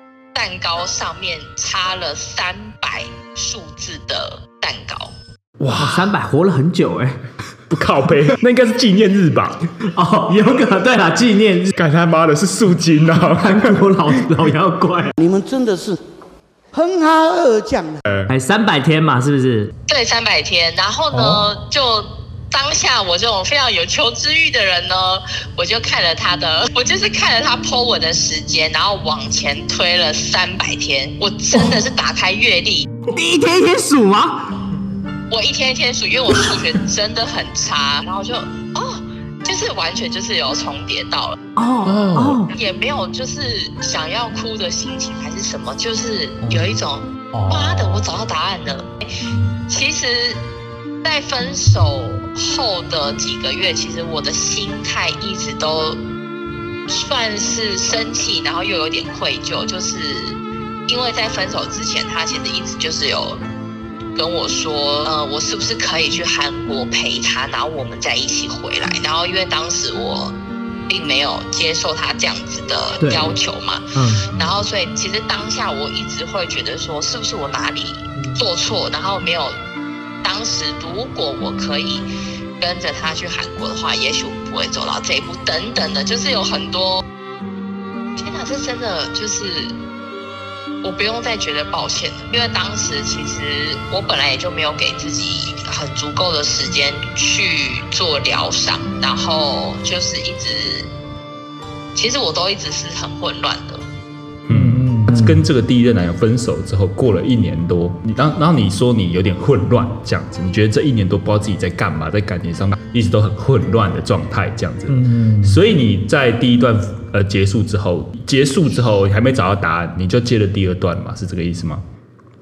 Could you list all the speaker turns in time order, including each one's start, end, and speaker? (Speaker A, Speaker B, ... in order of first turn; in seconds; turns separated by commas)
Speaker A: 0.3-5.2, Speaker B: 5.6-6.1, Speaker C: 5.8-7.2, Speaker B: 7.7-9.7, Speaker C: 9.9-11.7, Speaker B: 11.7-14.1, Speaker C: 13.4-15.1, Speaker D: 15.2-16.0, Speaker D: 16.7-18.0, Speaker B: 18.1-18.3, Speaker C: 18.3-19.7, Speaker A: 19.9-32.9, Speaker C: 21.1-21.4, Speaker C: 31.5-31.8, Speaker C: 33.1-34.5, Speaker A: 35.3-41.4, Speaker C: 41.6-42.5, Speaker B: 41.9-42.4, Speaker A: 42.5-48.9, Speaker C: 46.4-46.7, Speaker C: 47.3-47.8, Speaker A: 49.7-50.4, Speaker A: 51.0-56.0, Speaker A: 56.9-63.4, Speaker A: 64.2-70.3, Speaker A: 70.9-79.6, Speaker C: 73.0-73.3, Speaker C: 74.0-74.3, Speaker A: 80.2-82.1, Speaker A: 82.6-87.0, Speaker A: 88.2-89.8, Speaker A: 90.8-100.9, Speaker A: 102.0-103.8, Speaker B: 104.5-121.8, Speaker C: 104.5-105.5, Speaker C: 114.9-115.6